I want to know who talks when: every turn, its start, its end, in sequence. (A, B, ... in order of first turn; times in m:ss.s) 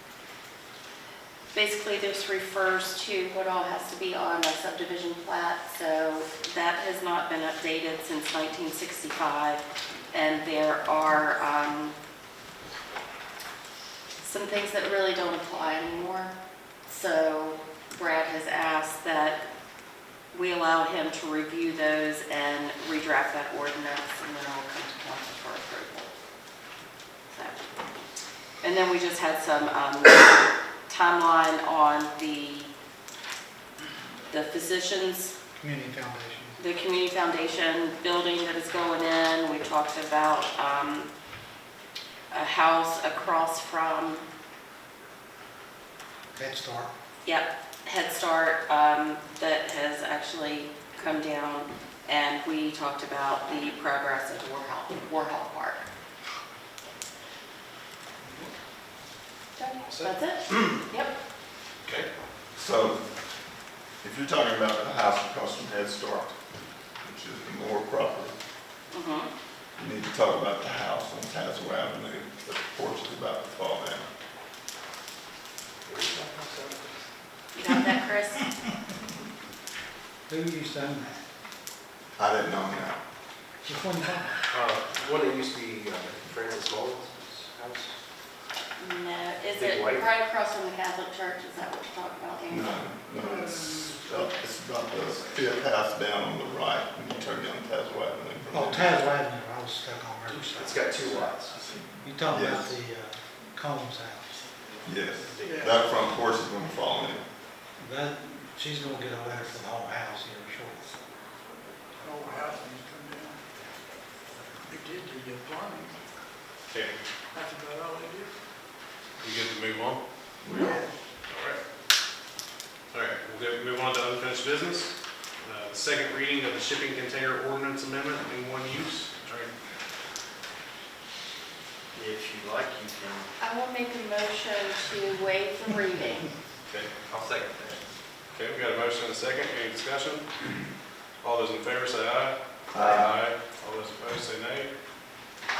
0:01.5-0:12.0 A
0:14.2-0:16.4 A
0:16.9-0:19.4 A
0:20.3-0:26.1 A
0:27.3-0:27.6 A
0:28.6-0:32.7 A
0:34.3-0:35.4 A
0:35.6-0:36.6 B
0:36.6-0:41.1 A
0:42.3-0:44.3 A
0:46.3-0:46.9 B
0:47.2-0:55.9 A
0:59.6-1:01.2 A
0:59.8-1:00.8 C
1:02.6-1:03.0 D
1:04.0-1:06.3 D
1:07.0-1:08.3 D
1:08.9-1:09.3 A
1:09.8-1:14.1 D
1:15.9-1:17.0 E
1:17.6-1:18.6 A
1:20.3-1:21.2 B
1:22.2-1:23.0 D
1:23.6-1:24.4 B
1:24.5-1:28.0 E
1:28.8-1:32.8 A
1:29.5-1:30.1 E
1:32.5-1:39.0 D
1:38.5-1:40.9 B
1:40.5-1:41.6 E
1:41.6-1:42.8 D
1:42.0-1:44.4 B
1:44.8-1:47.2 D
1:45.4-1:45.6 E
1:45.4-1:46.0 F
1:47.8-1:51.0 B
1:52.0-1:53.5 F
1:54.6-1:56.0 F
1:56.7-1:57.0 C
1:57.3-1:58.3 F
1:59.2-2:00.0 C
2:00.4-2:00.8 D
2:00.5-2:00.9 F
2:01.3-2:01.6 C
2:02.9-2:09.5 C
2:12.0-2:13.3 G
2:13.4-2:16.3 A
2:17.1-2:17.8 G
2:18.3-2:20.3 C
2:21.2-2:24.7 C
2:22.7-2:23.2 D